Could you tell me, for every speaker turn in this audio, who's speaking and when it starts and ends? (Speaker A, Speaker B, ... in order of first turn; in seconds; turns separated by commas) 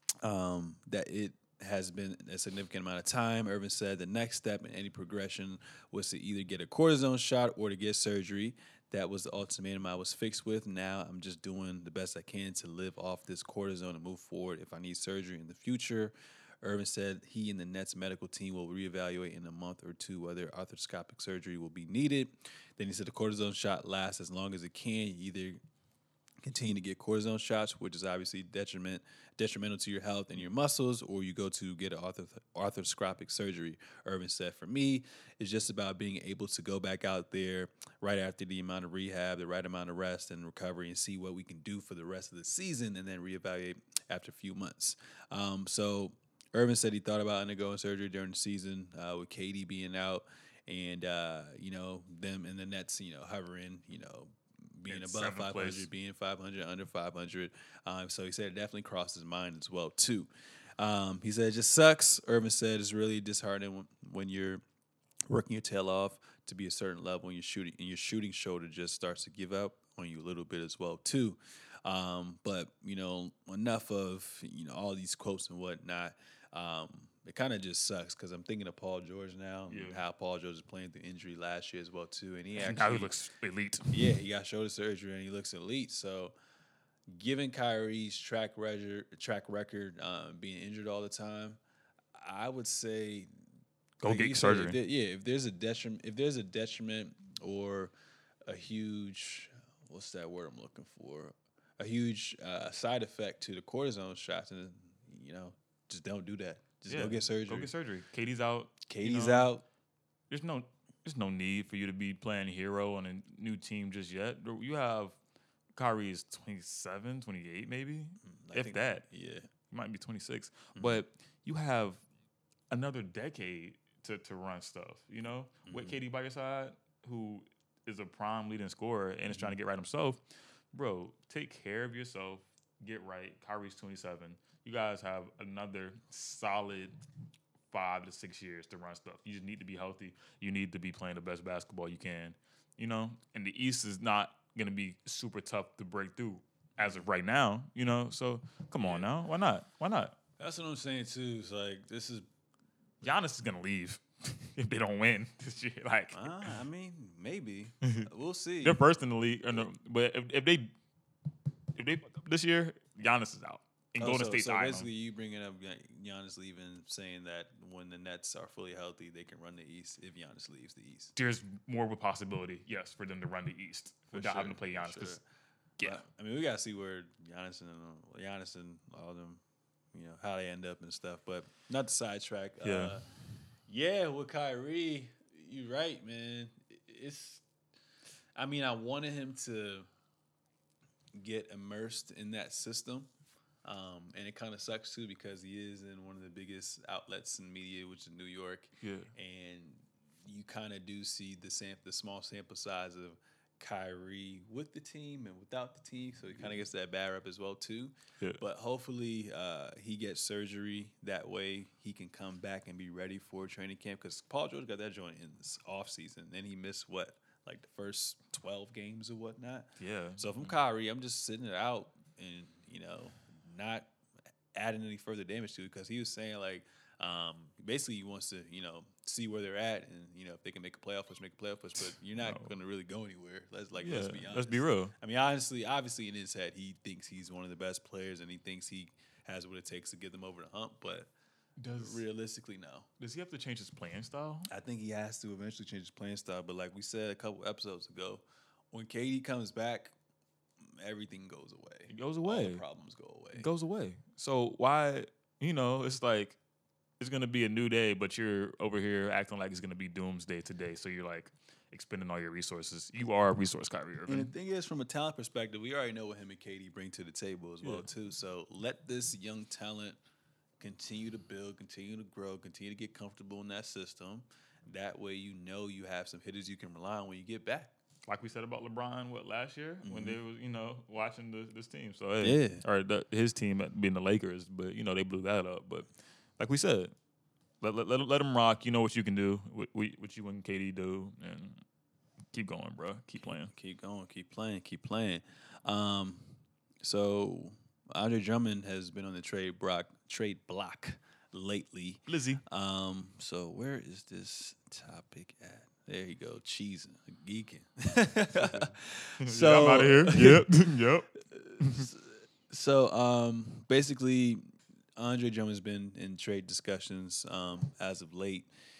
Speaker A: 0.2-25.6, Speaker A: 26.4-64.6, Speaker B: 54.9-55.9, Speaker A: 65.3-83.1, Speaker B: 79.7-80.0, Speaker B: 82.6-84.1, Speaker A: 83.9-86.3, Speaker A: 87.1-91.6, Speaker A: 92.2-93.3, Speaker B: 94.0-94.8, Speaker A: 94.0-97.9, Speaker A: 98.5-107.7, Speaker B: 106.9-109.5, Speaker A: 108.9-109.6, Speaker B: 110.3-115.2, Speaker B: 115.8-119.0, Speaker A: 118.2-119.5, Speaker B: 119.7-122.0, Speaker A: 120.8-121.0, Speaker B: 122.7-130.2, Speaker A: 125.7-126.0, Speaker B: 130.7-137.0, Speaker B: 137.7-150.1, Speaker A: 146.8-147.1, Speaker A: 148.8-149.1, Speaker A: 150.4-152.3, Speaker B: 153.0-156.6, Speaker A: 156.1-158.8, Speaker B: 157.8-158.1, Speaker B: 158.6-160.7, Speaker B: 161.8-164.9, Speaker A: 164.0-171.1, Speaker B: 171.2-175.2, Speaker A: 174.1-175.2, Speaker A: 175.8-179.4, Speaker A: 179.9-183.0, Speaker B: 182.6-183.0, Speaker A: 183.7-187.4, Speaker A: 188.4-189.9, Speaker A: 191.2-193.1, Speaker A: 193.7-223.9, Speaker B: 198.8-199.1, Speaker B: 219.8-220.5, Speaker A: 224.6-241.1, Speaker B: 232.2-232.5, Speaker B: 233.8-234.9, Speaker B: 241.6-242.0, Speaker A: 241.8-242.9, Speaker B: 243.0-244.5, Speaker A: 244.5-249.9, Speaker A: 250.6-253.5, Speaker B: 251.9-252.6, Speaker B: 253.3-256.4, Speaker B: 257.0-264.3, Speaker A: 264.1-270.0, Speaker A: 270.6-277.7, Speaker B: 278.1-285.9, Speaker A: 279.8-280.2, Speaker A: 282.2-282.6, Speaker B: 286.4-286.9, Speaker B: 287.6-291.6, Speaker B: 292.3-293.5, Speaker A: 293.5-296.3, Speaker A: 296.8-310.6, Speaker B: 302.1-302.4, Speaker B: 308.4-311.1, Speaker A: 311.2-318.5, Speaker B: 311.6-311.9